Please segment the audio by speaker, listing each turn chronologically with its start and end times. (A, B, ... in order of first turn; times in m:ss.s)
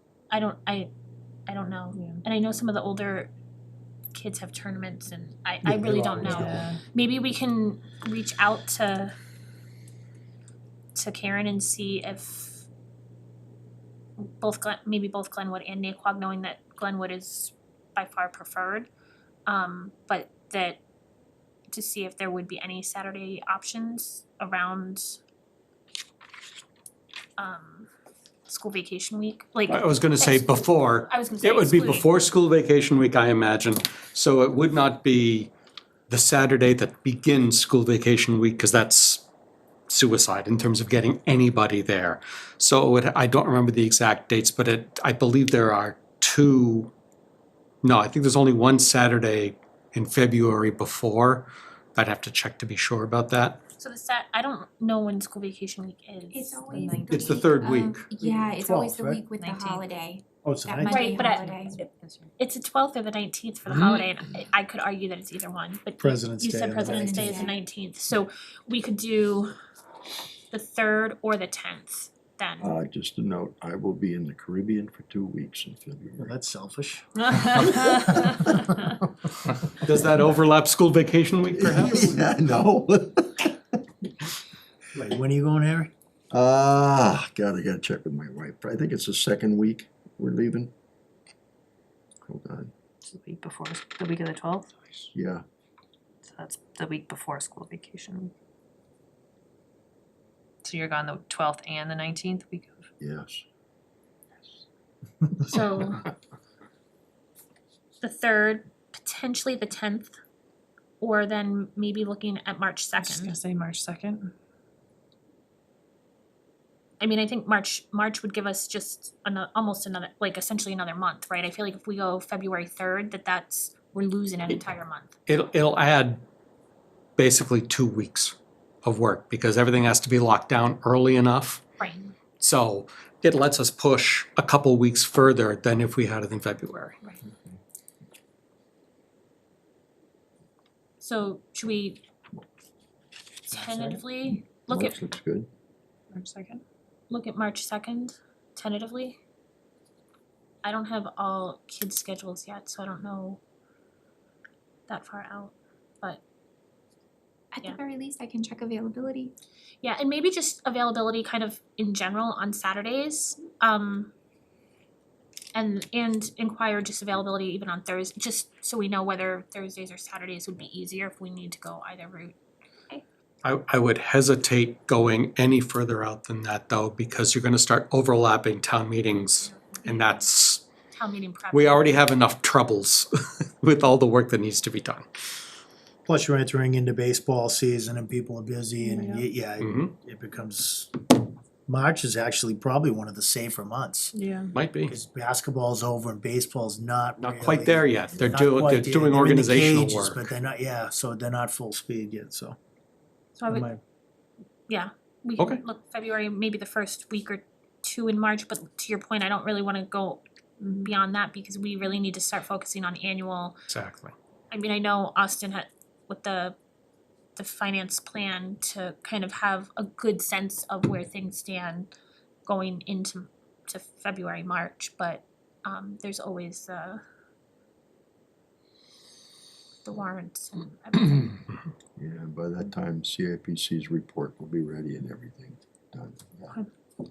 0:00.3-0:00.9 A
0:01.5-0:03.3 A
0:01.9-0:02.2 B
0:04.1-0:09.1 A
0:05.8-0:06.5 C
0:05.9-0:06.4 D
0:06.2-0:06.8 B
0:11.0-0:12.7 A
0:14.2-0:18.9 A
0:19.5-0:20.8 A
0:21.7-0:25.2 A
0:27.4-0:27.9 A
0:28.5-0:32.1 A
0:29.7-0:35.5 D
0:36.1-0:39.2 D
0:39.9-0:46.9 D
0:47.8-0:53.6 D
0:53.8-0:56.6 A
0:56.3-1:01.8 E
0:56.6-0:57.2 B
0:57.1-0:58.1 D
0:58.2-0:58.5 B
0:58.5-0:59.2 C
0:59.3-0:59.9 B
1:00.4-1:01.1 C
1:00.9-1:09.6 A
1:01.2-1:02.3 B
1:03.7-1:04.1 D
1:06.0-1:07.5 C
1:07.1-1:07.5 E
1:10.5-1:12.7 A
1:12.6-1:16.4 F
1:16.2-1:18.9 C
1:17.2-1:18.9 A
1:19.8-1:22.1 D
1:21.6-1:23.7 F
1:24.9-1:25.9 C
1:26.3-1:30.7 F
1:32.2-1:32.7 F
1:33.0-1:35.1 B
1:35.1-1:35.4 F
1:36.2-1:38.3 B
1:40.6-1:42.9 B
1:43.0-1:43.4 F
1:45.4-1:46.0 A
1:48.0-1:50.2 A
1:51.0-1:53.4 A
1:53.0-1:54.3 B
1:57.0-2:05.2 A
2:05.3-2:06.2 D
2:07.2-2:11.6 D
2:11.8-2:12.2 A
2:12.4-2:17.0 D
2:21.0-2:22.0 A
2:23.4-2:25.0 A
2:24.6-2:25.5 F
2:26.1-2:26.6 B
2:27.1-2:29.2 A
2:30.6-2:33.4 A
2:34.9-2:36.2 A
2:37.5-2:39.3 E
2:39.8-2:44.1 A
2:45.5-2:52.4 A
2:53.4-3:00.6 D
2:59.4-3:00.2 A
3:00.9-3:02.0 A
3:01.5-3:05.1 D
3:06.1-3:11.0 C
3:08.8-3:09.2 B
3:09.6-3:09.9 D
3:11.7-3:14.2 C
3:14.1-3:14.5 B
3:14.5-3:14.9 D
3:14.9-3:22.6 C
3:17.2-3:20.3 D
3:23.4-3:23.7 A
3:23.5-3:23.8 C
3:24.7-3:30.2 A
3:25.4-3:25.6 D
3:30.6-3:30.9 B
3:30.8-3:33.6 A
3:33.7-3:34.1 D
3:34.5-3:36.6 A
3:37.4-3:41.9 A
3:42.4-3:47.0 A
3:49.8-3:51.4 A
3:52.0-3:56.5 F